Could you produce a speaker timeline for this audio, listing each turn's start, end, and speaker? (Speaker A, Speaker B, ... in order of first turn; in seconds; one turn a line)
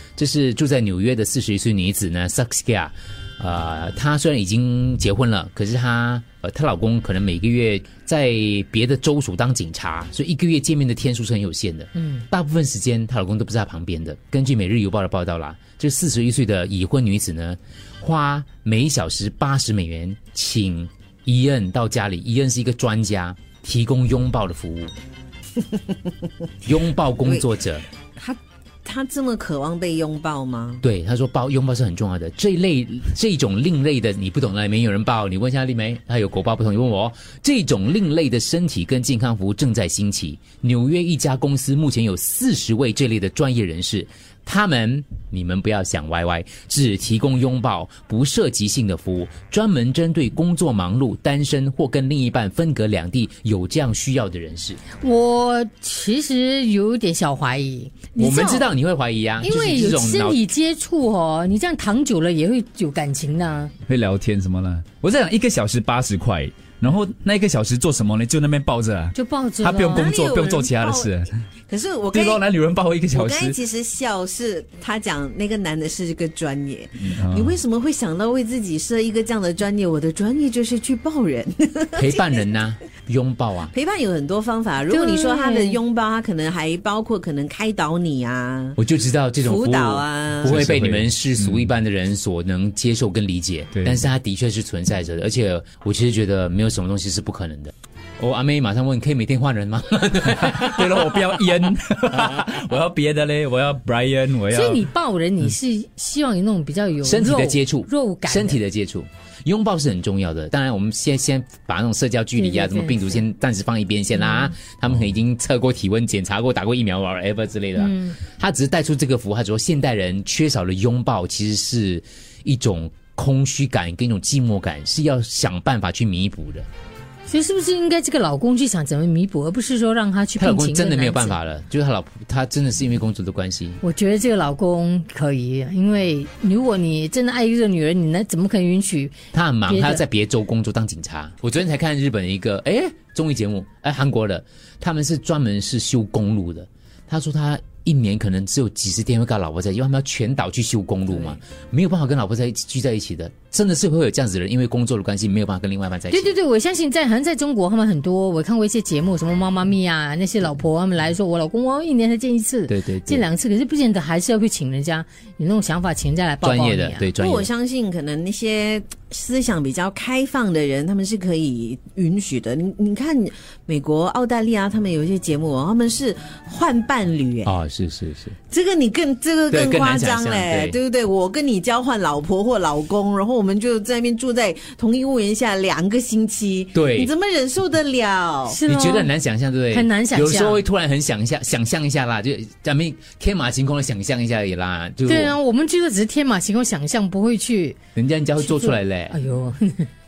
Speaker A: 0.2-24.9
Speaker A: 26.6-27.8
Speaker B: 27.2-27.5
Speaker B: 28.2-30.8
Speaker A: 30.8-54.8
Speaker C: 55.0-58.7
Speaker A: 58.2-60.4
Speaker C: 59.4-63.7
Speaker D: 63.9-71.4
Speaker C: 69.1-70.1
Speaker B: 69.8-71.1
Speaker B: 71.7-72.5
Speaker D: 72.1-73.5
Speaker B: 73.1-82.5
Speaker D: 77.0-77.6
Speaker A: 82.0-83.7
Speaker B: 83.7-88.8
Speaker C: 84.9-85.8
Speaker A: 88.8-101.1
Speaker B: 89.4-90.6
Speaker D: 90.4-91.6
Speaker D: 100.4-104.8
Speaker C: 104.5-108.6
Speaker A: 107.0-126.7
Speaker C: 112.4-113.2
Speaker C: 114.2-114.5
Speaker C: 117.8-118.2
Speaker C: 127.3-131.4
Speaker A: 130.4-133.8
Speaker C: 133.8-140.0
Speaker A: 139.3-156.3
Speaker C: 156.1-167.1
Speaker A: 162.7-163.3
Speaker A: 166.4-167.5
Speaker B: 167.2-177.5
Speaker A: 177.4-178.3
Speaker B: 178.5-188.6
Speaker A: 179.5-180.8
Speaker A: 186.7-187.1
Speaker C: 188.5-189.1
Speaker A: 188.7-195.4
Speaker C: 189.7-190.6
Speaker C: 195.1-197.8
Speaker A: 198.0-199.2
Speaker C: 198.4-199.9